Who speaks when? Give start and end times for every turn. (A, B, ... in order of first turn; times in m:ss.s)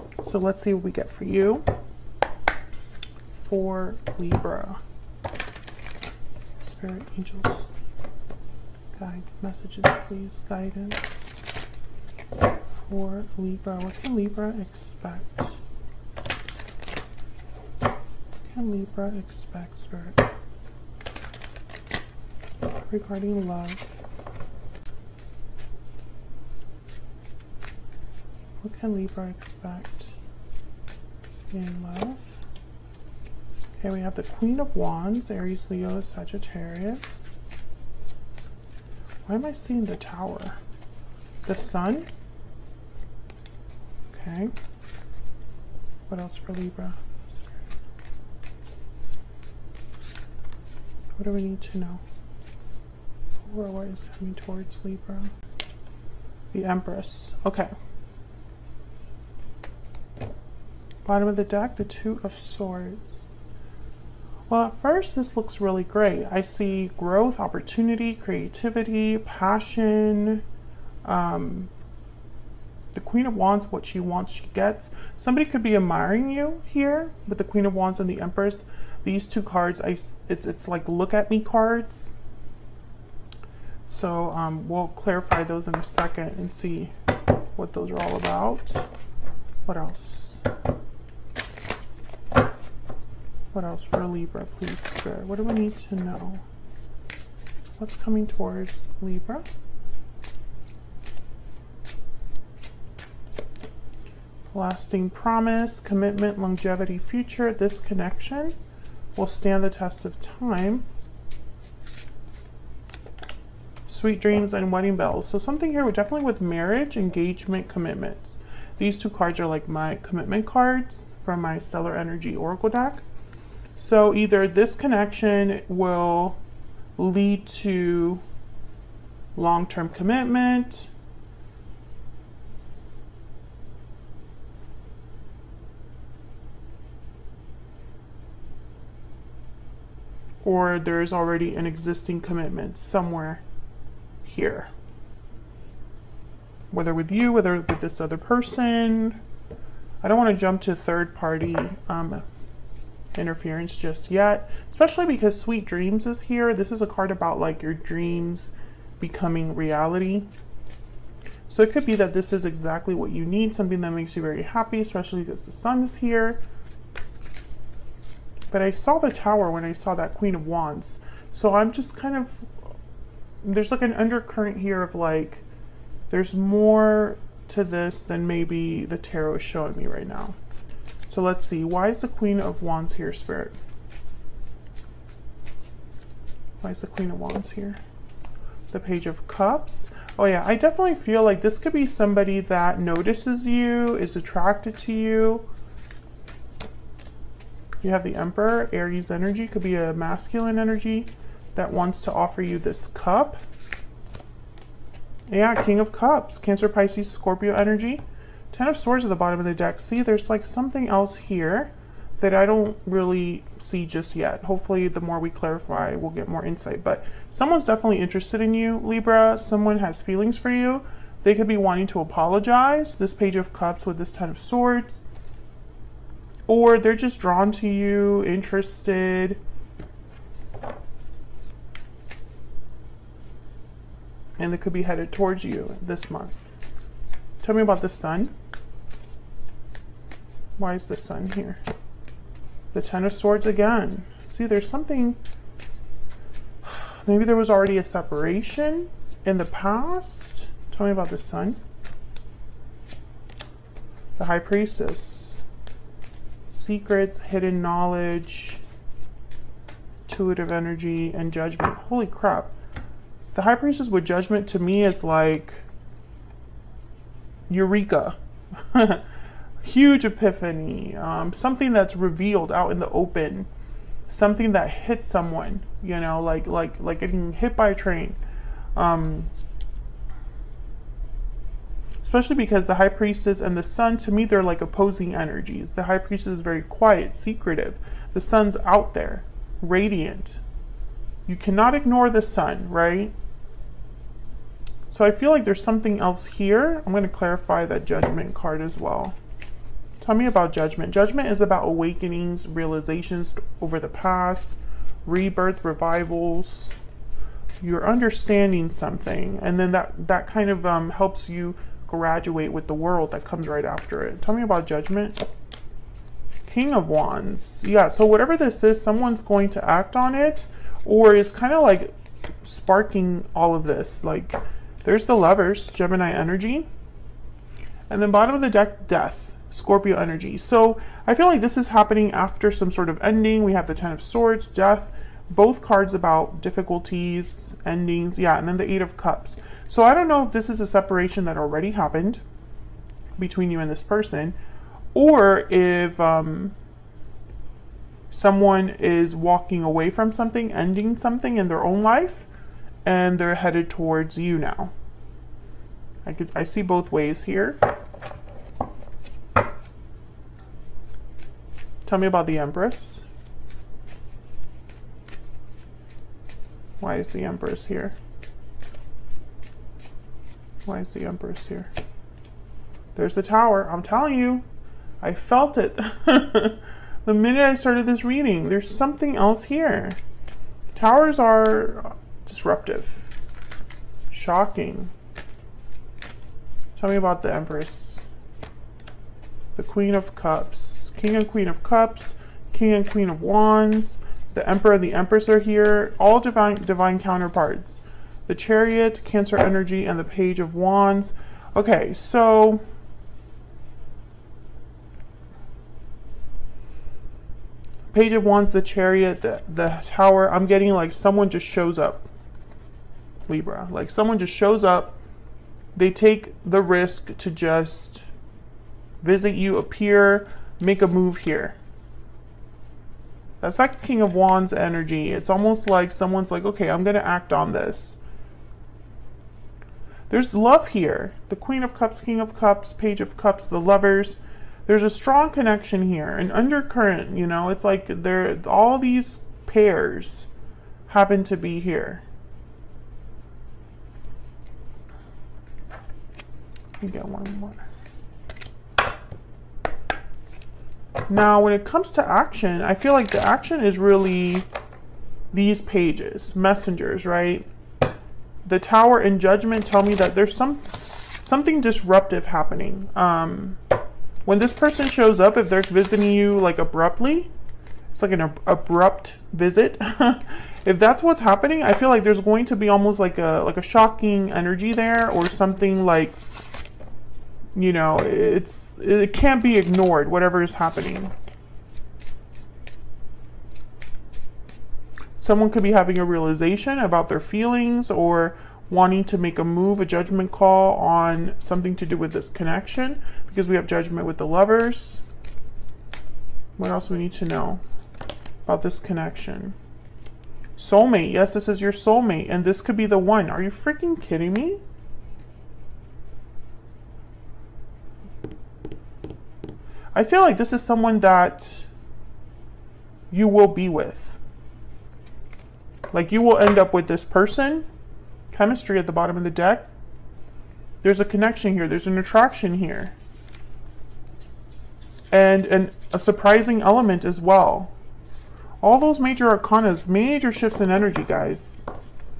0:00.2-0:01.7 A
0:03.4-0:04.8 A
0:06.6-0:07.7 A
0:09.0-0:11.4 A
0:12.8-0:15.6 A
0:18.5-0:20.2 A
0:22.8-0:23.9 A
0:28.6-0:30.1 A
0:31.5-0:32.4 A
0:33.8-0:37.2 A
0:39.2-0:40.6 A
0:41.4-0:42.1 A
0:44.1-0:44.5 A
0:46.1-0:47.0 A
0:51.2-0:52.0 A
0:53.4-0:55.3 A
0:56.5-0:57.7 A
1:01.0-1:03.2 A
1:04.5-1:10.4 A
1:11.0-1:11.7 A
1:12.9-1:22.1 A
1:23.9-1:26.9 A
1:27.5-1:28.8 A
1:29.6-1:30.4 A
1:33.5-1:36.4 A
1:37.8-1:39.5 A
1:44.5-1:48.5 A
1:49.1-1:50.8 A
1:53.9-2:03.0 A
2:03.8-2:06.4 A
2:07.0-2:08.2 A
2:09.3-2:10.9 A
2:20.4-2:23.4 A
2:24.2-2:24.7 A
2:26.7-2:29.2 A
2:30.0-2:32.2 A
2:33.1-2:40.3 A
2:41.5-2:46.4 A
2:48.5-2:52.5 A
2:53.4-2:55.4 A
2:56.1-3:00.4 A
3:01.1-3:03.6 A
3:06.6-3:07.8 A
3:08.7-3:15.4 A
3:17.8-3:23.4 A
3:25.3-3:45.0 A
3:46.5-3:49.4 A
3:54.4-3:56.6 A
3:57.4-3:58.3 A
4:00.6-4:01.6 A
4:02.7-4:05.2 A
4:06.6-4:11.6 A
4:14.2-4:15.4 A
4:16.5-4:18.6 A
4:20.1-4:22.5 A
4:23.3-4:25.6 A
4:27.5-4:29.0 A
4:29.6-4:33.5 A
4:34.1-4:38.2 A
4:38.8-4:39.3 A
4:42.0-4:50.4 A
4:51.2-4:53.1 A
4:54.9-4:59.2 A
5:00.0-5:06.7 A
5:07.6-5:15.2 A
5:16.4-5:21.9 A
5:22.4-5:26.7 A
5:27.9-5:42.2 A
5:43.2-5:44.4 A
5:44.9-5:46.5 A
5:48.1-5:52.3 A
5:52.8-5:54.7 A
5:56.0-5:57.6 A
6:01.8-6:03.0 A
6:06.8-6:08.0 A
6:10.6-6:11.7 A
6:12.9-6:14.4 A
6:15.0-6:20.0 A
6:20.7-6:23.1 A
6:24.1-6:24.9 A
6:26.7-6:28.1 A
6:29.6-6:42.6 A
6:47.9-6:52.0 A
6:53.3-6:55.0 A
6:55.7-6:58.0 A
6:59.0-7:01.6 A
7:03.4-7:08.0 A
7:10.1-7:20.3 A
7:20.9-7:22.0 A
7:26.8-7:27.6 A
7:31.1-7:34.5 A
7:35.3-7:37.4 A
7:38.4-7:43.6 A
7:44.2-7:47.3 A
7:47.9-7:56.2 A
7:57.5-8:01.1 A
8:05.2-8:15.0 A
8:16.6-8:17.6 A
8:18.4-8:19.6 A
8:20.6-8:24.6 A
8:29.9-8:31.7 A
8:33.1-8:34.2 A
8:35.9-8:37.6 A
8:38.3-8:39.7 A
8:40.8-8:42.9 A
8:45.1-8:47.7 A
8:48.6-8:51.6 A